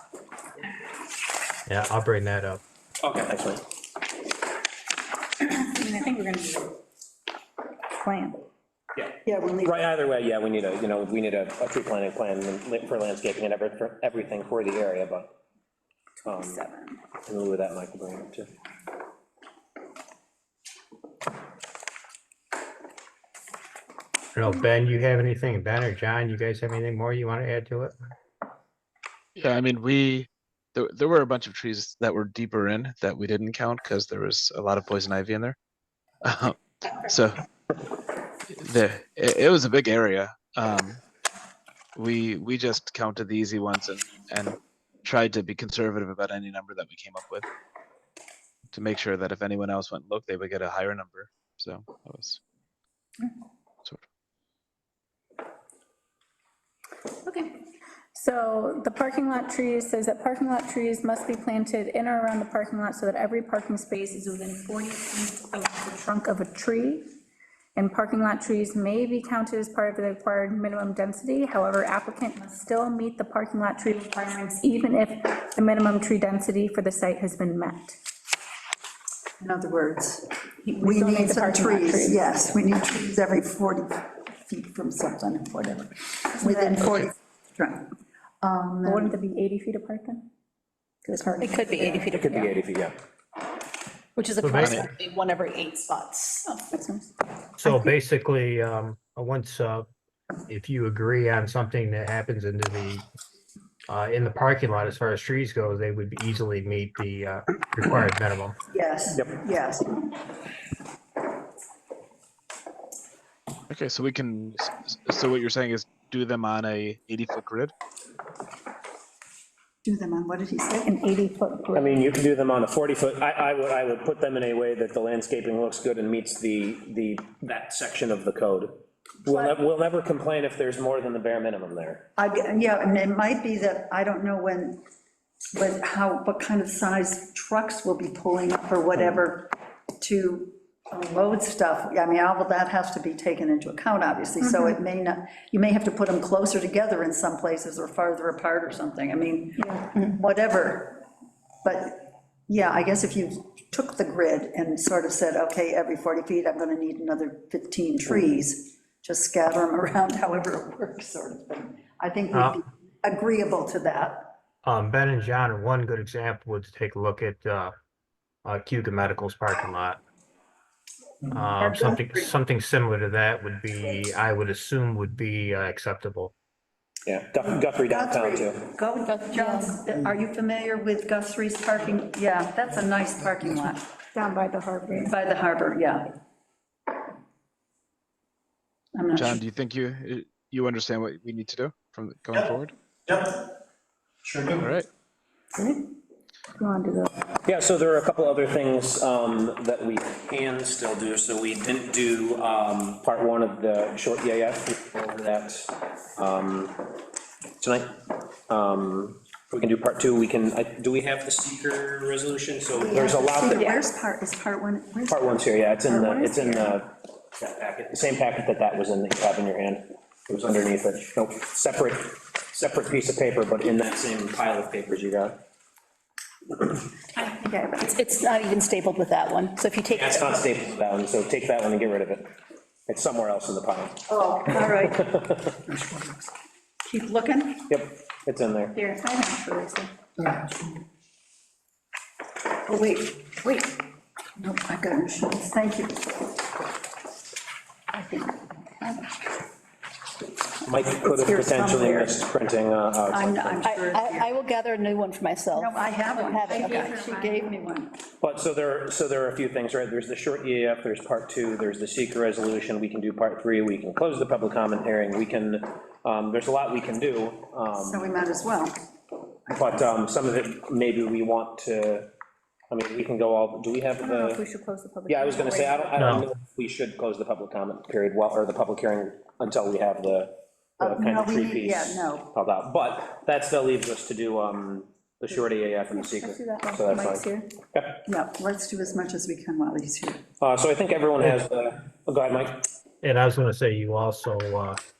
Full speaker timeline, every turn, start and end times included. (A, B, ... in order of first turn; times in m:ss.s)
0:01.6-0:02.6 A
0:03.0-0:03.6 B
0:05.4-0:06.8 C
0:08.0-0:08.4 C
0:09.0-0:15.3 B
0:09.2-0:09.8 D
0:16.2-0:16.6 B
0:17.2-0:18.5 B
0:24.3-0:28.0 A
0:29.4-0:35.6 E
0:36.2-0:37.4 E
0:38.5-0:41.0 E
0:42.0-0:47.4 E
0:48.7-0:52.4 E
0:57.2-0:57.6 C
0:58.1-1:07.1 C
1:07.8-1:18.0 C
1:19.4-1:27.9 D
1:20.6-1:22.4 C
1:26.4-1:26.8 C
1:28.4-1:29.1 D
1:28.8-1:30.3 C
1:31.1-1:32.5 C
1:31.2-1:32.3 F
1:32.1-1:32.9 B
1:34.2-1:36.5 F
1:34.4-1:34.8 A
1:34.5-1:34.9 E
1:37.6-1:39.9 A
1:40.5-1:43.0 A
1:43.9-1:48.6 A
1:48.7-1:50.1 D
1:49.1-1:49.4 B
1:53.7-1:57.7 E
1:59.8-2:00.9 D
2:00.8-2:02.1 C
2:01.7-2:12.0 B
2:09.3-2:09.5 D
2:12.2-2:14.8 D
2:15.5-2:31.0 D
2:24.4-2:24.8 C
2:29.6-2:29.8 C
2:31.6-2:44.3 D
2:42.3-2:42.6 A
2:44.6-2:47.7 A
2:48.4-2:50.0 A
2:51.3-2:56.3 A
2:51.5-2:52.3 D
2:57.0-2:58.6 B
2:57.9-3:03.8 D
2:59.0-2:59.8 C
3:04.1-3:05.1 C
3:04.9-3:06.2 D
3:08.9-3:09.4 D
3:09.1-3:12.7 E
3:14.3-3:14.6 A
3:14.6-3:14.9 E
3:16.6-3:17.2 C
3:17.4-3:26.8 B
3:27.6-3:33.8 B
3:32.8-3:35.5 D
3:35.1-3:45.4 B
3:36.0-3:36.6 C
3:47.3-3:47.9 D
3:47.8-3:50.3 F
3:49.9-3:52.3 B
3:52.9-3:54.1 B
3:54.1-3:55.1 D
3:54.7-3:55.6 B
3:55.8-3:56.1 D
3:56.8-3:57.7 D
3:57.7-3:58.7 B
3:58.7-3:59.9 C
4:00.2-4:00.8 D
4:02.6-4:03.8 D
4:04.4-4:06.3 D
4:07.9-4:09.1 D
4:10.6-4:13.6 B
4:11.0-4:12.2 D
4:13.1-4:14.3 D
4:13.6-4:15.7 F
4:15.5-4:18.0 D
4:16.0-4:17.5 C
4:16.3-4:16.7 F
4:18.2-4:28.2 B
4:27.8-4:28.8 D
4:29.5-4:32.1 B
4:32.7-4:34.4 B
4:34.0-4:35.9 C
4:35.1-4:48.0 B
4:36.0-4:36.3 A
4:40.8-4:42.3 D
4:45.9-4:47.5 C
4:48.0-4:50.2 D
4:50.4-4:52.6 B
4:53.0-4:54.8 A